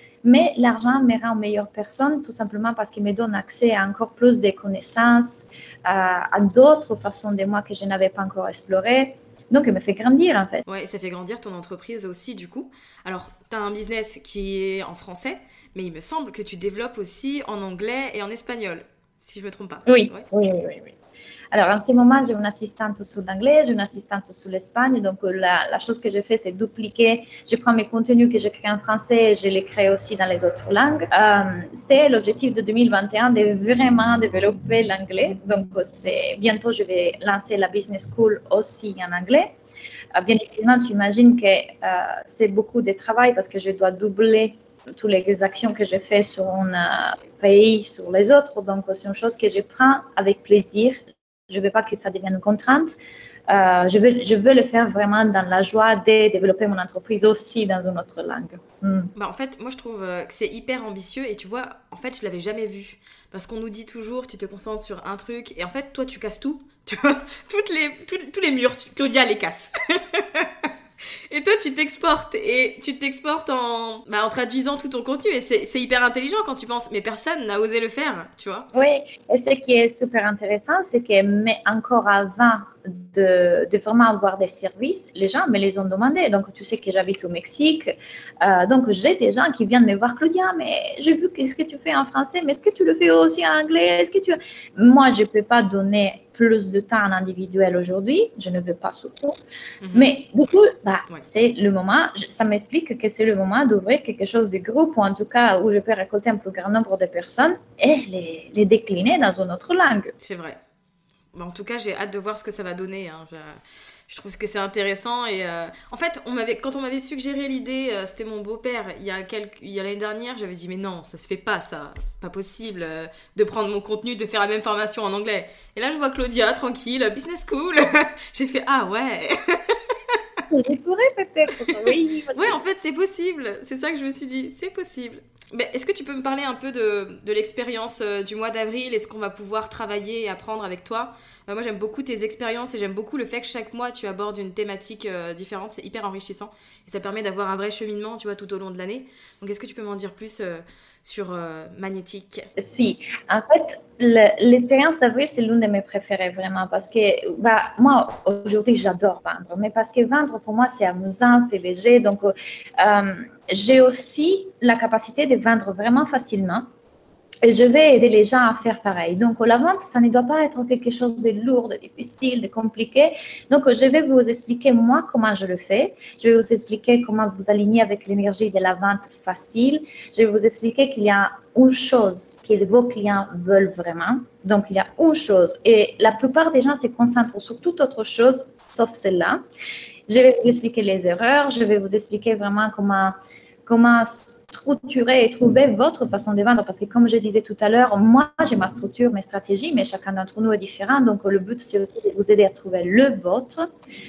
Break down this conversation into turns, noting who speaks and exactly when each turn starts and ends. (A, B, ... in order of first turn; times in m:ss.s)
0:00.2-0:10.6 A
0:10.7-0:20.3 B
0:19.9-0:21.0 A
0:21.5-0:39.6 A
0:40.1-0:53.0 A
0:53.5-0:59.1 A
0:59.2-1:10.7 B
1:11.3-1:18.7 B
1:18.7-1:39.4 A
1:39.8-1:40.2 B
1:39.9-1:50.1 A
1:50.2-1:50.6 B
1:51.3-2:10.2 B
2:10.5-2:12.6 A
2:12.3-2:32.5 B
2:32.6-2:46.7 A
2:47.4-3:09.4 A
3:10.1-3:23.7 A